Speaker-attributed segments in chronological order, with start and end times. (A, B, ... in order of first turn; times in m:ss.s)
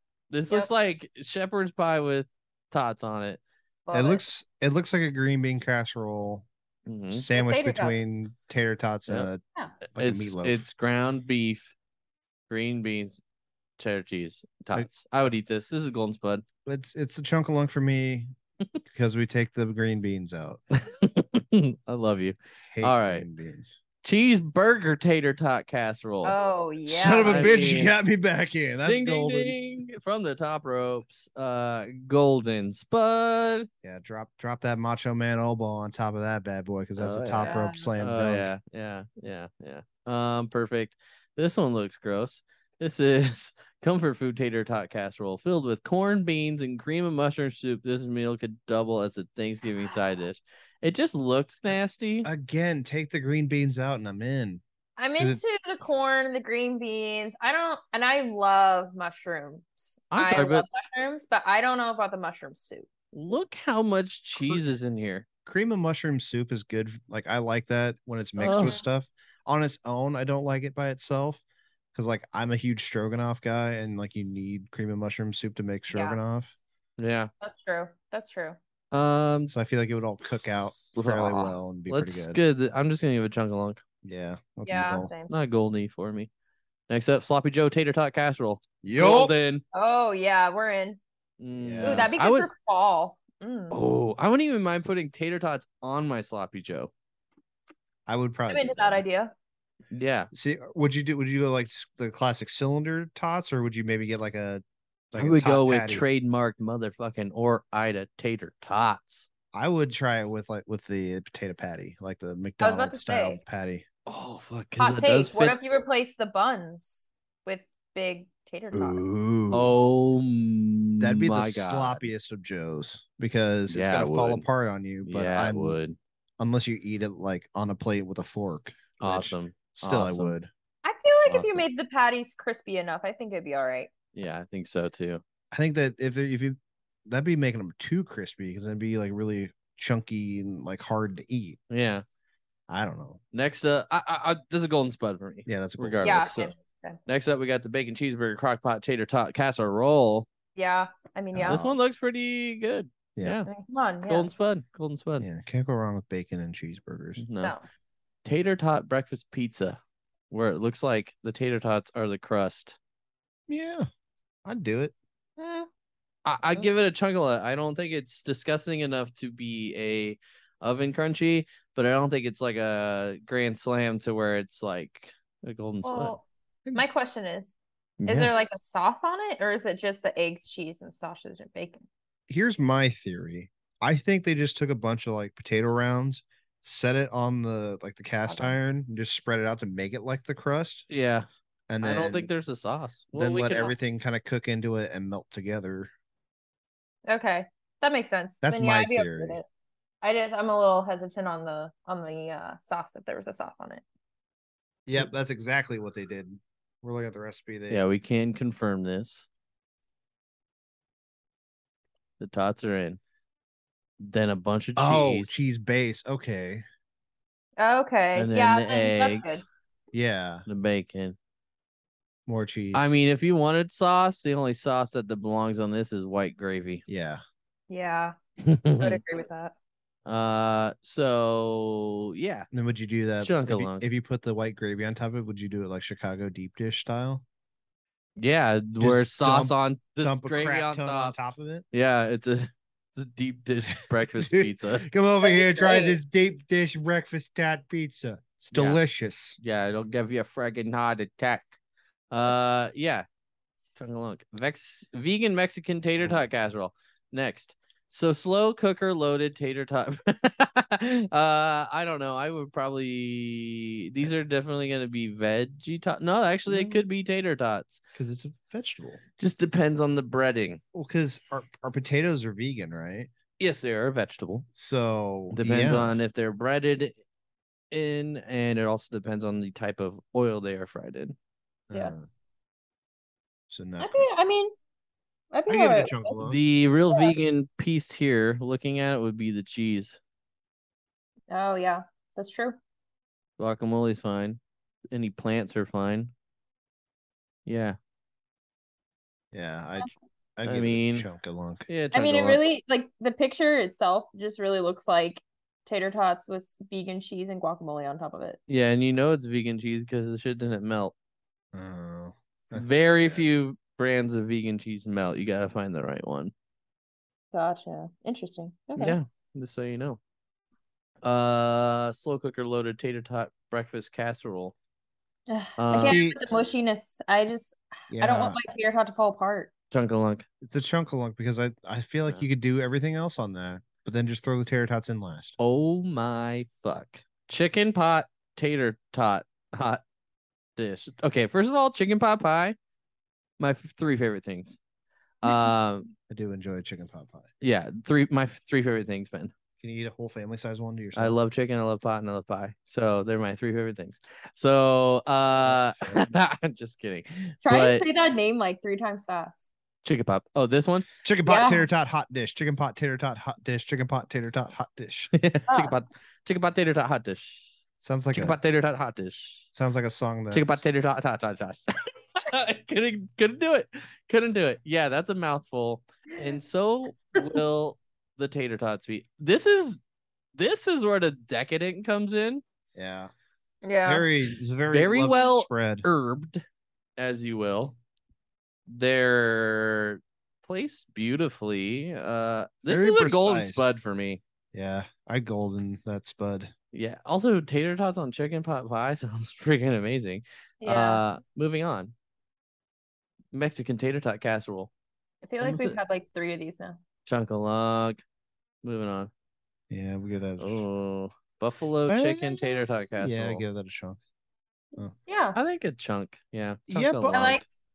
0:00.3-0:03.4 A
0:03.9-0:04.2 B
0:03.9-0:06.5 C
0:06.9-0:07.3 A
0:07.1-0:09.4 C
0:07.3-0:08.1 B
0:09.9-0:10.7 C
0:10.0-0:11.7 A
0:12.5-0:13.2 A
0:13.8-0:16.4 A
0:16.6-0:18.3 C
0:18.9-0:20.6 C
0:20.8-0:23.3 A
0:22.7-0:23.8 C
0:24.0-0:26.4 A
0:26.2-0:27.7 B
0:26.9-0:29.6 C
0:27.2-0:27.9 A
0:28.8-0:33.7 A
0:33.8-0:38.5 C
0:37.0-0:52.3 A
0:37.4-0:37.9 B
0:51.7-0:54.6 C
0:55.0-1:02.9 B
0:55.2-0:55.5 C
1:00.1-1:00.6 A
1:03.1-1:05.2 A
1:05.5-1:11.4 C
1:08.4-1:08.8 A
1:08.5-1:08.8 B
1:11.9-1:16.5 C
1:15.9-1:16.2 B
1:17.0-1:17.3 A
1:17.4-1:18.6 B
1:18.9-1:19.5 A
1:19.5-1:22.4 C
1:21.0-1:23.8 A
1:24.0-1:25.1 C
1:24.6-1:25.3 B
1:25.3-1:26.3 A
1:26.9-1:29.6 A
1:28.8-1:29.4 C
1:29.7-1:31.0 B
1:31.4-1:32.5 A
1:31.6-1:32.1 C
1:31.8-1:33.8 B
1:33.7-1:36.9 A
1:38.1-1:39.0 C
1:38.5-1:39.3 B
1:39.9-1:40.3 A
1:40.3-1:46.0 C
1:45.2-1:49.3 A
1:49.5-1:53.8 C
1:52.6-1:53.4 B
1:54.1-1:55.6 A
1:54.8-1:59.0 B
1:58.7-1:59.7 C
1:59.5-2:02.1 A
2:01.0-2:05.8 C
2:03.7-2:04.5 A
2:05.0-2:06.0 A
2:06.4-2:10.5 C
2:09.0-2:10.4 A
2:10.8-2:13.9 B
2:11.3-2:11.6 A
2:14.2-2:15.2 A
2:15.5-2:21.6 C
2:21.7-2:22.0 A
2:22.7-2:23.2 C
2:23.3-2:26.5 A
2:25.5-2:26.3 C
2:26.0-2:27.0 B
2:27.1-2:30.3 A
2:30.6-2:31.7 B
2:31.3-2:31.8 C
2:31.5-2:33.5 A
2:33.5-2:34.3 B
2:34.1-2:35.3 A
2:35.2-2:37.2 C
2:37.2-2:37.6 A
2:38.2-2:39.8 A
2:40.3-2:42.8 A
2:43.5-2:43.9 C
2:44.4-2:44.9 C
2:45.4-2:45.7 B
2:46.2-2:56.2 A
2:55.8-2:57.5 B
2:58.0-2:58.3 A
2:58.1-3:01.8 B
3:02.3-3:10.9 C
3:08.3-3:08.5 B
3:10.9-3:11.3 A
3:11.7-3:12.3 C
3:11.8-3:13.7 A
3:13.1-3:15.9 C
3:17.1-3:19.4 B
3:18.4-3:19.4 C
3:20.0-3:23.8 B
3:24.9-3:27.8 C
3:27.7-3:29.3 A
3:32.2-3:33.0 A
3:34.0-3:35.4 A
3:34.8-3:36.6 C
3:37.6-3:39.4 B
3:38.2-3:39.4 A
3:39.9-3:40.5 C
3:40.5-3:41.2 A
3:42.3-3:42.9 C
3:42.7-3:46.8 A
3:46.9-3:47.2 C
3:47.7-3:48.2 B
3:48.4-3:49.0 A
3:48.8-3:49.5 B
3:50.1-3:52.5 A
3:52.5-3:57.2 C
3:53.2-3:53.8 A
3:58.2-4:01.2 A
3:58.8-4:01.7 C
4:01.7-4:04.9 A
4:04.0-4:09.4 C
4:05.2-4:06.0 B
4:08.5-4:08.8 A
4:09.4-4:11.6 A
4:12.1-4:13.1 A
4:13.8-4:27.8 A
4:26.5-4:26.8 C
4:28.0-4:29.0 C
4:29.2-4:30.6 A
4:30.7-4:33.1 C
4:33.4-4:34.5 A
4:34.5-4:36.0 C
4:35.3-4:37.0 A
4:37.7-4:41.2 A
4:41.7-4:42.0 C
4:43.5-4:44.1 C
4:43.8-4:44.5 B
4:45.3-4:46.2 B
4:45.5-4:46.4 C
4:46.2-4:50.0 A
4:46.9-4:47.2 B
4:51.3-4:52.6 B
4:53.4-4:54.4 A
4:54.9-4:56.1 A
4:57.5-4:57.8 A
4:59.3-5:01.7 C
5:00.5-5:01.1 A
5:01.7-5:02.4 A
5:01.9-5:08.4 B
5:08.5-5:10.9 A
5:11.5-5:13.3 C
5:12.5-5:16.3 A
5:17.3-5:19.0 B
5:18.8-5:20.0 A
5:21.0-5:24.6 A
5:25.3-5:29.5 B
5:25.6-5:26.0 A
5:25.8-5:26.2 C
5:27.9-5:28.4 C
5:29.7-5:30.3 A
5:30.4-5:35.4 C
5:35.4-5:39.8 A
5:40.6-5:42.6 A
5:43.4-5:44.6 A
5:45.2-5:45.9 A
5:46.1-5:47.3 C
5:47.4-5:49.3 A
5:49.6-5:51.2 C
5:51.0-5:57.8 A
5:55.4-5:56.1 C
5:57.4-5:59.5 B
5:59.8-6:00.9 A
6:01.0-6:05.1 C
6:01.3-6:01.7 B
6:05.1-6:07.5 A
6:05.5-6:05.8 B
6:07.8-6:08.4 C
6:08.1-6:09.5 A
6:09.5-6:10.6 C
6:10.3-6:19.8 A
6:20.4-6:22.4 A
6:22.8-6:23.1 C
6:23.6-6:24.1 B
6:23.8-6:25.8 C
6:24.7-6:26.4 A
6:27.0-6:27.8 A
6:28.7-6:34.2 A
6:32.7-6:33.7 C
6:34.5-6:36.5 C
6:36.7-6:41.9 A
6:40.6-6:41.0 B
6:43.3-6:44.7 A
6:45.2-6:46.8 B
6:45.4-6:45.8 A
6:47.1-6:48.0 A
6:48.6-6:49.1 A
6:49.7-6:50.6 C
6:50.4-6:53.4 A
6:51.9-6:54.0 C
6:55.1-6:55.4 B
6:55.4-6:57.4 A
6:56.7-6:57.4 C
6:57.1-6:57.4 B